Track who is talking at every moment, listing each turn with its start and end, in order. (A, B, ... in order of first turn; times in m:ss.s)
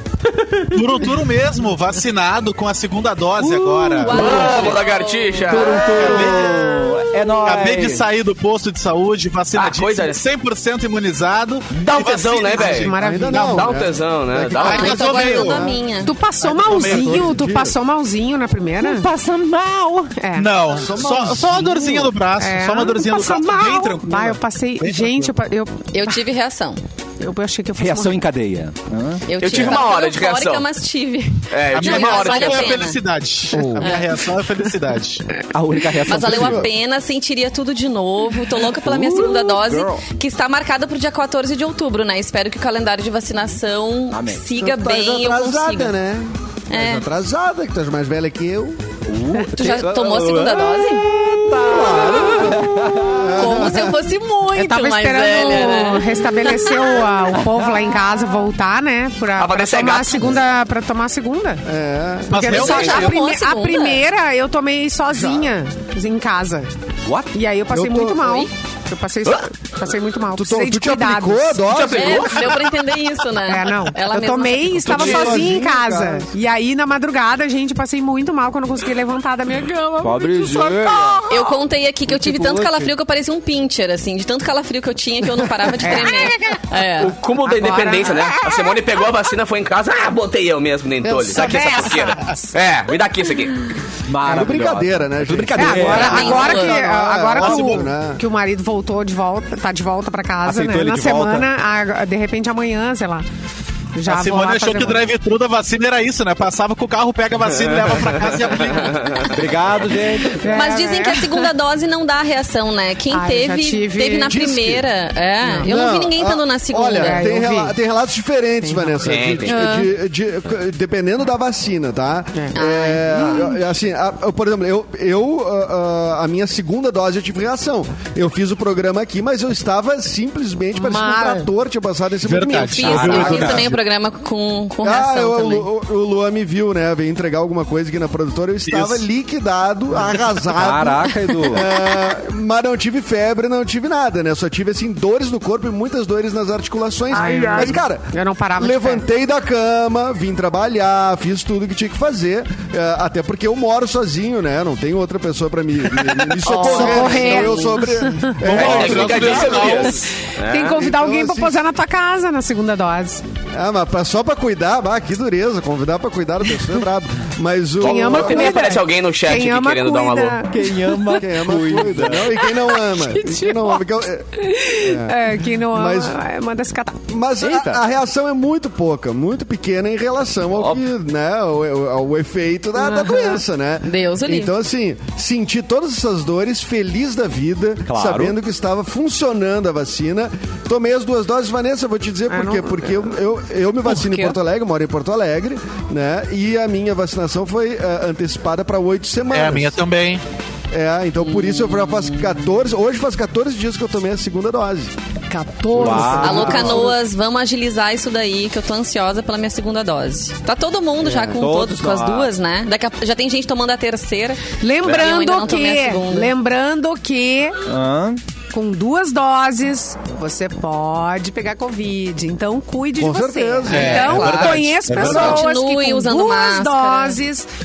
0:00.3-0:01.2 A
0:00.7-0:04.3 B
0:03.4-0:04.8 A
0:03.9-0:06.9 C
0:04.1-0:06.3 D
0:05.4-0:08.0 A
0:06.0-0:06.5 B
0:07.4-0:13.0 B
0:09.5-0:10.2 D
0:11.8-0:15.1 D
0:12.6-0:13.7 E
0:12.9-0:15.8 F
0:14.5-0:15.7 B
0:14.6-0:16.1 C
0:16.0-0:19.1 E
0:16.4-0:17.4 B
0:16.6-0:17.7 F
0:18.8-0:20.1 A
0:20.2-0:20.5 E
0:20.4-0:25.3 B
0:20.7-0:22.1 F
0:22.4-0:26.1 E
0:25.9-0:26.8 C
0:27.2-0:28.2 E
0:27.8-0:29.8 A
0:29.3-0:33.0 C
0:29.4-0:30.7 D
0:31.5-0:32.8 D
0:31.7-0:35.2 B
0:33.5-0:34.0 F
0:35.5-0:36.7 A
0:36.1-0:45.9 C
0:36.2-0:36.7 F
0:38.7-0:40.0 A
0:44.1-0:44.4 A
0:44.6-0:48.9 F
0:46.7-0:47.1 C
0:49.1-0:53.6 A
0:49.5-0:51.1 C
0:51.2-0:54.0 F
0:51.8-0:52.6 C
0:53.3-0:57.1 C
0:54.5-1:01.6 E
0:57.4-0:58.0 A
0:59.4-1:00.3 D
1:01.7-1:02.5 F
1:02.3-1:03.2 B
1:02.3-1:06.7 E
1:02.5-1:04.0 C
1:02.6-1:03.1 D
1:05.1-1:05.5 F
1:07.1-1:07.3 A
1:07.3-1:11.7 E
1:07.7-1:08.4 F
1:10.4-1:12.5 F
1:11.7-1:12.7 D
1:11.9-1:15.4 C
1:13.5-1:21.6 E
1:14.8-1:16.3 F
1:20.0-1:21.2 A
1:21.3-1:27.2 C
1:22.1-1:22.9 A
1:25.8-1:26.7 E
1:27.0-1:33.7 D
1:27.4-1:29.0 E
1:31.2-1:32.5 E
1:31.2-1:31.6 F
1:34.1-1:36.6 A
1:34.2-1:38.2 F
1:35.6-1:43.3 E
1:35.7-1:36.9 C
1:37.4-1:37.9 B
1:40.4-1:41.5 A
1:44.0-1:45.0 E
1:44.1-1:49.3 B
1:47.9-1:49.3 D
1:49.3-1:50.5 A
1:50.4-1:51.5 E
1:50.5-1:57.3 C
1:53.1-1:54.3 E
1:54.3-1:54.9 F
1:55.4-1:55.7 E
1:55.6-2:13.8 F
1:56.9-1:57.8 E
1:58.6-1:59.9 E
1:59.0-1:59.6 D
1:59.5-1:59.8 C
2:02.5-2:03.5 C
2:03.1-2:03.5 E
2:10.8-2:11.5 E
2:12.2-2:13.8 B
2:12.5-2:15.7 C
2:14.8-2:39.9 F
2:18.7-2:19.0 B
2:20.4-2:21.8 A
2:27.1-2:29.0 E
2:36.4-2:38.4 E
2:38.2-2:40.1 B
2:38.4-2:40.8 D
2:40.2-2:43.2 E
2:40.7-2:41.6 F
2:43.5-2:48.6 F
2:47.8-2:50.4 D
2:47.8-2:51.2 E
2:50.5-2:52.4 A
2:51.2-2:56.1 F
2:52.4-2:53.8 E
2:54.4-2:57.0 E
2:57.1-3:19.8 F
2:57.4-2:57.8 A
3:00.5-3:00.8 A
3:02.8-3:03.4 E
3:03.8-3:04.5 C
3:07.9-3:08.4 A
3:12.3-3:13.2 E
3:13.9-3:14.3 E
3:19.3-3:20.2 B
3:20.7-3:24.9 F
3:21.2-3:22.4 C
3:25.3-3:26.9 E
3:25.7-3:26.8 A
3:25.8-3:27.0 F
3:26.0-3:36.3 C
3:31.0-3:32.3 A
3:34.6-3:37.6 E
3:37.7-3:38.2 A
3:38.5-3:47.5 E
3:43.0-3:44.2 F
3:43.7-3:45.5 B
3:43.7-3:47.2 C